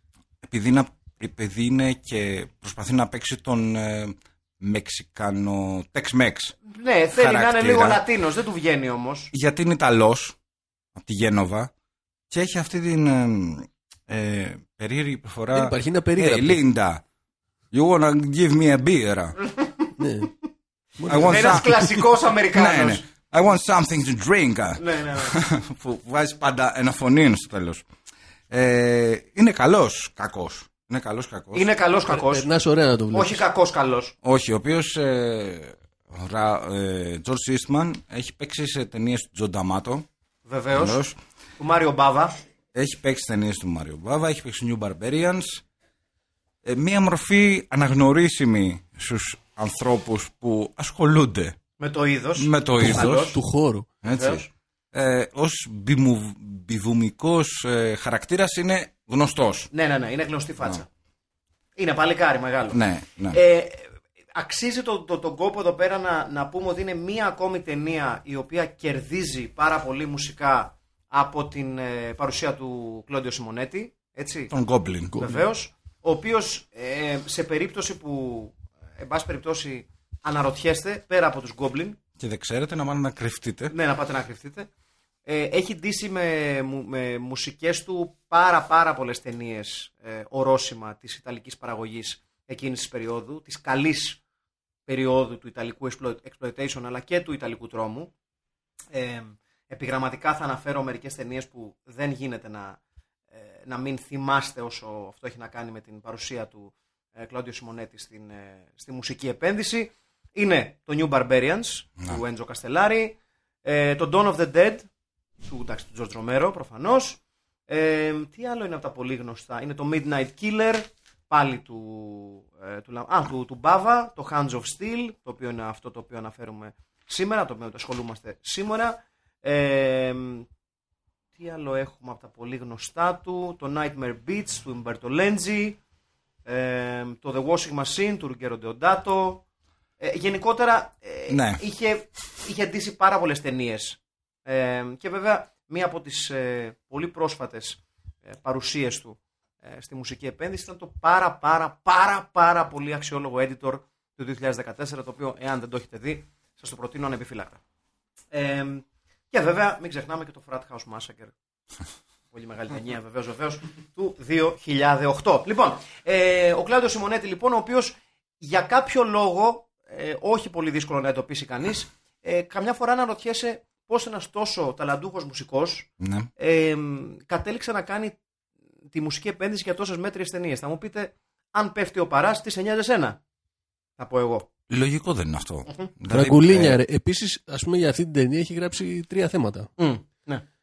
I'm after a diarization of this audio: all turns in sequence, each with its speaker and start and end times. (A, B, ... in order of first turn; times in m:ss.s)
0:00.4-0:06.6 A
0:06.7-0:09.3 B
0:07.1-0:08.0 A
0:09.3-0:10.4 A
0:10.9-0:11.7 A
0:12.3-0:17.0 A
0:15.5-0:16.6 C
0:17.7-0:19.4 A
0:19.4-0:19.9 B
0:20.0-0:20.3 C
0:21.0-0:22.0 C
0:21.1-0:21.8 A
0:21.1-0:23.0 B
0:22.5-0:27.8 A
0:24.8-0:25.4 B
0:28.5-0:31.7 A
0:31.5-0:32.4 B
0:32.1-0:33.4 C
0:33.1-0:34.1 B
0:34.2-0:40.0 A
0:40.4-0:41.0 B
0:40.8-0:41.2 A
0:41.6-0:42.3 B
0:42.7-0:45.6 A
0:46.6-0:51.6 A
0:51.8-0:53.4 B
0:52.4-0:53.4 A
0:52.8-0:53.9 C
0:54.0-0:59.7 A
0:54.1-0:54.4 B
0:59.7-1:00.9 B
1:01.8-1:02.8 B
1:02.7-1:03.4 A
1:03.3-1:14.5 B
1:14.5-1:15.2 A
1:15.1-1:15.4 C
1:15.2-1:22.0 B
1:22.2-1:23.7 A
1:23.7-1:24.7 B
1:25.2-1:34.2 B
1:34.9-1:38.1 B
1:38.9-1:42.8 B
1:43.3-1:54.9 B
1:55.4-2:10.5 B
2:11.4-2:15.8 B
2:16.4-2:19.4 B
2:20.0-2:37.6 B
2:21.3-2:21.6 A
2:38.3-2:41.3 B
2:42.3-2:58.2 B
2:56.0-2:56.3 A
2:58.9-3:03.2 B
3:04.0-3:04.5 B
3:04.7-3:06.8 A
3:06.1-3:09.7 C
3:09.8-3:10.4 B